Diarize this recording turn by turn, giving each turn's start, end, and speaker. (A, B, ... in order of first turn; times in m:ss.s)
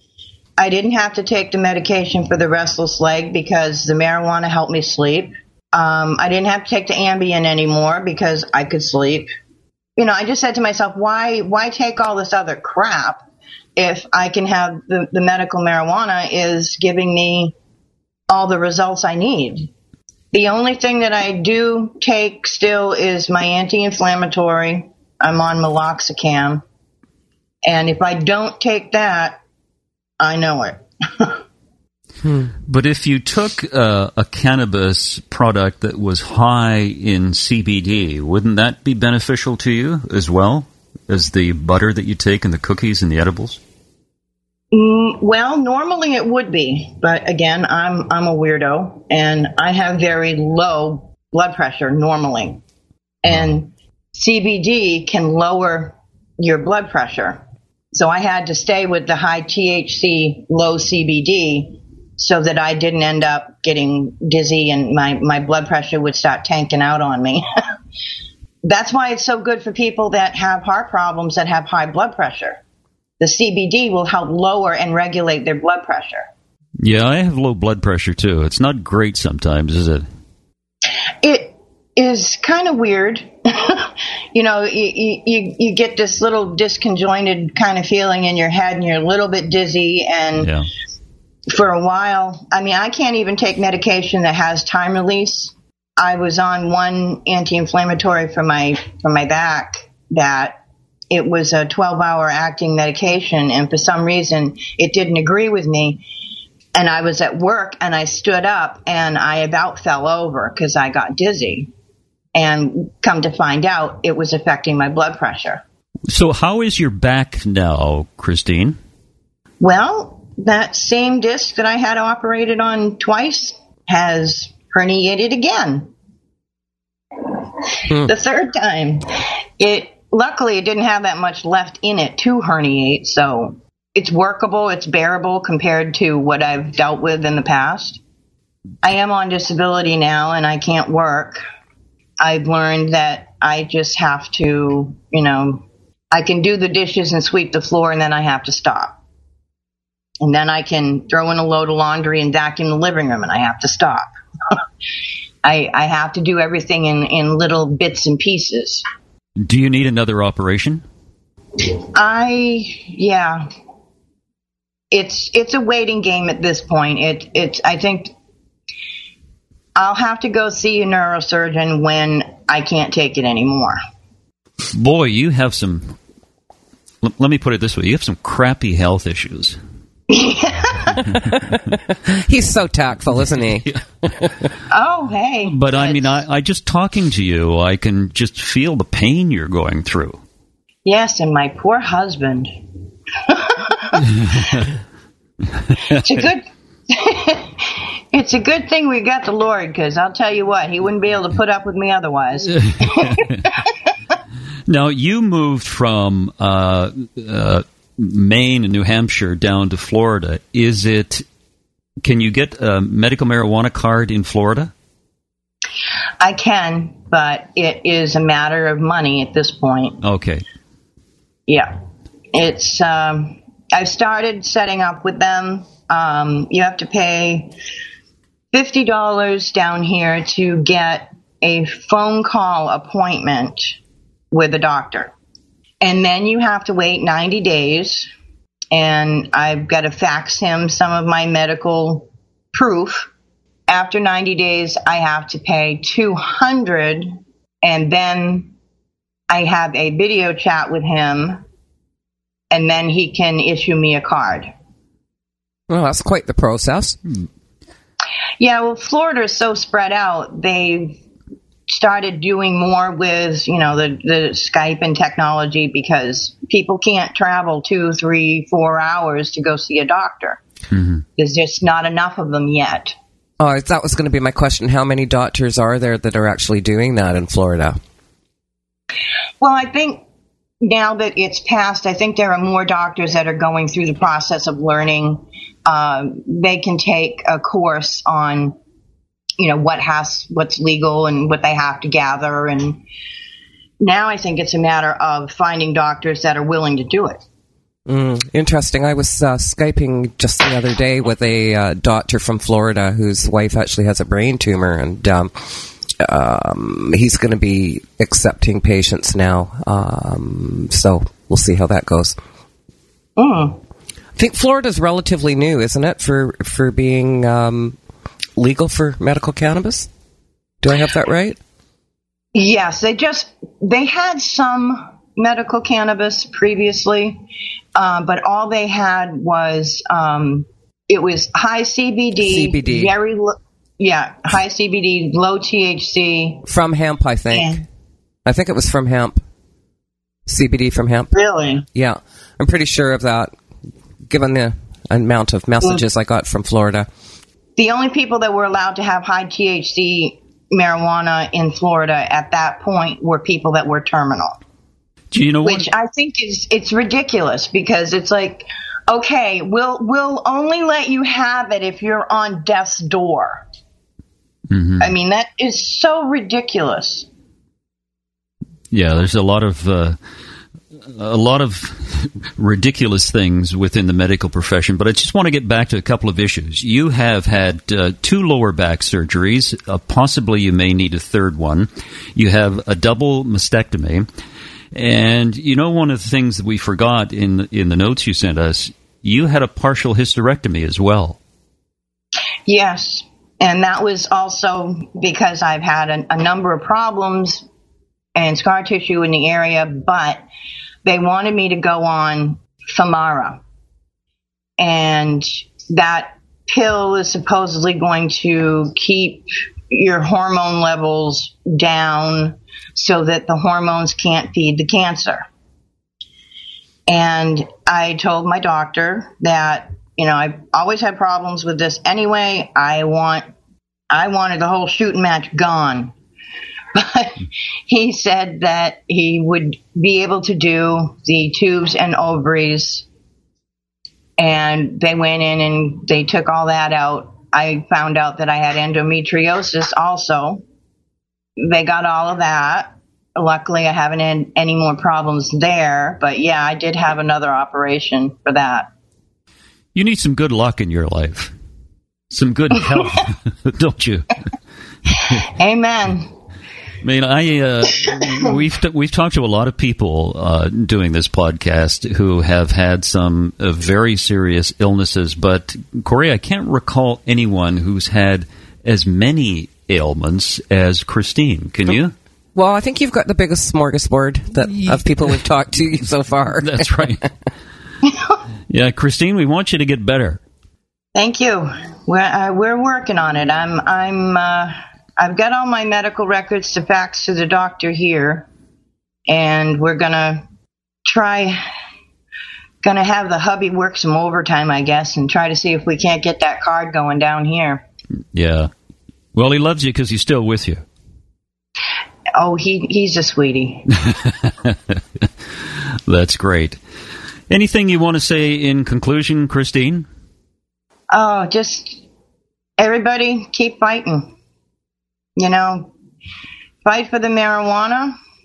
0:00.6-0:09.3 A
0:10.0-0:13.2 A
0:13.8-0:17.5 A
0:18.3-0:19.7 A
0:20.3-0:26.6 A
0:27.6-0:29.4 A
0:30.2-0:31.4 A
0:32.2-0:32.5 B
0:32.6-0:43.6 C
0:44.7-0:52.6 A
0:53.2-0:57.4 A
0:57.9-1:07.4 A
1:08.6-1:12.6 A
1:13.2-1:16.2 A
1:16.8-1:20.0 C
1:21.2-1:30.5 A
1:30.4-1:30.7 C
1:31.5-1:40.6 A
1:41.1-1:46.0 A
1:46.7-1:51.7 A
1:52.3-1:55.6 A
1:56.1-1:58.8 C
1:59.6-2:05.9 A
2:07.2-2:09.0 A
2:09.6-2:18.0 A
2:18.8-2:21.4 A
2:22.2-2:29.0 A
2:30.2-2:34.6 A
2:35.4-2:38.8 A
2:39.4-2:40.8 C
2:41.9-2:43.5 A
2:44.9-2:48.1 A
2:49.8-2:53.8 A
2:54.7-2:56.0 C
2:57.0-2:59.6 C
3:00.1-3:01.0 A
3:01.5-3:04.3 B
3:04.7-3:06.2 A
3:05.4-3:10.2 C
3:10.8-3:12.5 A
3:13.2-3:14.6 A
3:15.8-3:23.7 A
3:22.6-3:23.3 C
3:24.7-3:31.2 C
3:32.0-3:34.7 C
3:36.2-3:40.0 A
3:40.0-3:40.4 C
3:41.5-3:41.7 A
3:42.3-3:47.5 A
3:48.5-3:53.8 A
3:54.3-3:55.1 A
3:55.8-3:58.1 A
3:58.7-4:03.1 A
4:03.7-4:08.5 A
4:09.3-4:11.4 A
4:12.5-4:14.5 A
4:15.7-4:17.0 B
4:18.4-4:21.0 A
4:21.7-4:30.4 A
4:31.2-4:32.9 A
4:33.4-4:37.8 B
4:39.4-4:40.0 A
4:40.6-4:48.5 A
4:49.4-4:52.8 A
4:53.8-4:57.2 A
4:57.9-5:12.2 B
5:13.2-5:13.6 A
5:14.2-5:17.8 B
5:18.4-5:19.9 B
5:20.6-5:21.4 B
5:22.3-5:27.2 A
5:27.7-5:36.4 A
5:32.2-5:32.9 B
5:36.4-5:37.6 B
5:37.3-5:37.6 A
5:38.2-5:39.2 B
5:40.2-5:41.1 B
5:41.1-5:41.6 A
5:41.7-5:43.3 B
5:44.1-5:46.9 B
5:47.6-5:54.4 A
5:55.1-5:55.7 C
5:55.4-6:03.4 A
6:04.5-6:04.9 C
6:04.8-6:07.1 A
6:08.7-6:10.0 C
6:10.8-6:24.1 C
6:24.7-6:31.2 C
6:32.5-6:37.4 A
6:38.1-6:40.2 A
6:40.8-6:43.4 A
6:44.6-6:55.2 A
6:56.9-7:03.2 A
7:03.9-7:05.9 A
7:06.7-7:12.8 A
7:14.2-7:20.4 A
7:21.4-7:28.7 A
7:29.7-7:31.3 C
7:32.1-7:34.2 C
7:35.0-7:36.1 A
7:36.8-7:51.9 C
7:52.3-7:56.9 B
7:56.4-7:57.1 C
7:58.5-8:00.2 C
8:00.9-8:08.3 A
8:09.1-8:10.2 A
8:10.8-8:11.4 A
8:12.6-8:17.6 A
8:18.1-8:18.5 C
8:19.1-8:20.6 C
8:22.2-8:23.7 A
8:23.8-8:25.1 C
8:25.8-8:26.6 C
8:27.3-8:29.8 C
8:30.9-8:31.8 A
8:32.6-8:34.1 A
8:35.2-8:35.7 A
8:36.6-8:38.0 A